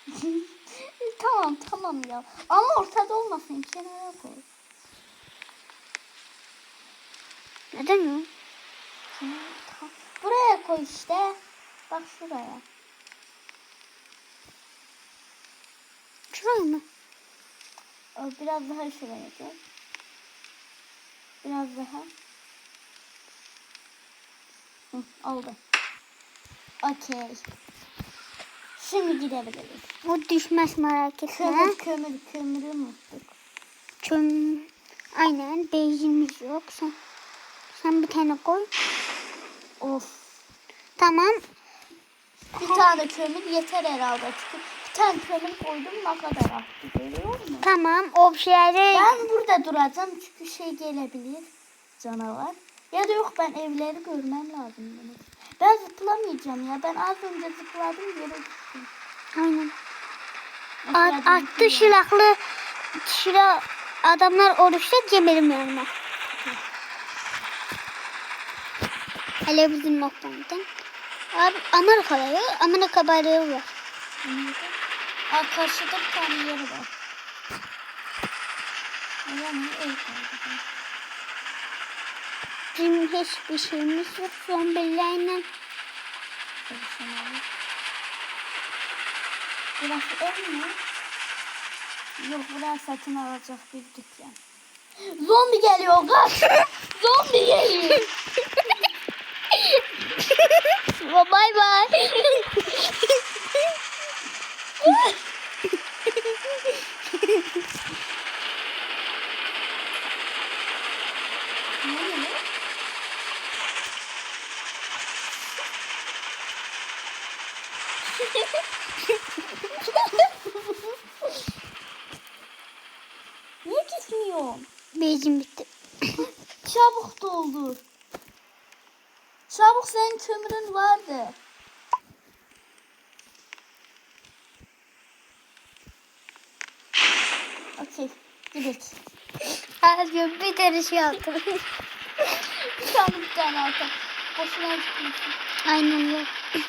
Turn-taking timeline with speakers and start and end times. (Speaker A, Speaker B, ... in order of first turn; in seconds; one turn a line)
Speaker A: 0.1-4.4
Speaker B: 7.7-8.3
Speaker A: 9.1-11.4
Speaker A: 11.9-12.6
Speaker B: 16.3-16.8
Speaker A: 18.1-19.6
Speaker A: 21.4-22.1
Speaker A: 24.9-25.6
Speaker A: 26.8-27.4
Speaker A: 28.8-29.8
Speaker B: 30.0-31.8
Speaker A: 31.4-33.3
Speaker B: 34.0-37.0
Speaker B: 37.7-38.7
Speaker A: 39.8-40.4
Speaker B: 41.0-41.4
Speaker A: 42.5-47.7
Speaker B: 47.6-49.1
Speaker A: 48.9-58.9
Speaker B: 59.3-59.7
Speaker A: 60.8-61.9
Speaker B: 60.9-62.4
Speaker B: 62.9-65.9
Speaker A: 66.3-66.7
Speaker B: 69.4-70.6
Speaker B: 71.3-73.7
Speaker A: 74.2-74.7
Speaker A: 75.3-76.9
Speaker A: 79.2-80.6
Speaker B: 82.7-85.5
Speaker A: 86.7-87.5
Speaker A: 89.8-90.8
Speaker A: 92.2-94.4
Speaker A: 95.0-98.1
Speaker B: 101.0-101.9
Speaker A: 102.0-102.8
Speaker A: 104.8-105.2
Speaker A: 111.8-112.4
Speaker A: 118.2-118.6
Speaker A: 119.8-120.9
Speaker A: 123.6-124.7
Speaker B: 124.9-126.2
Speaker A: 126.6-127.8
Speaker A: 129.5-131.4
Speaker A: 137.8-139.0
Speaker B: 139.8-141.6
Speaker A: 142.2-145.3
Speaker B: 145.7-146.3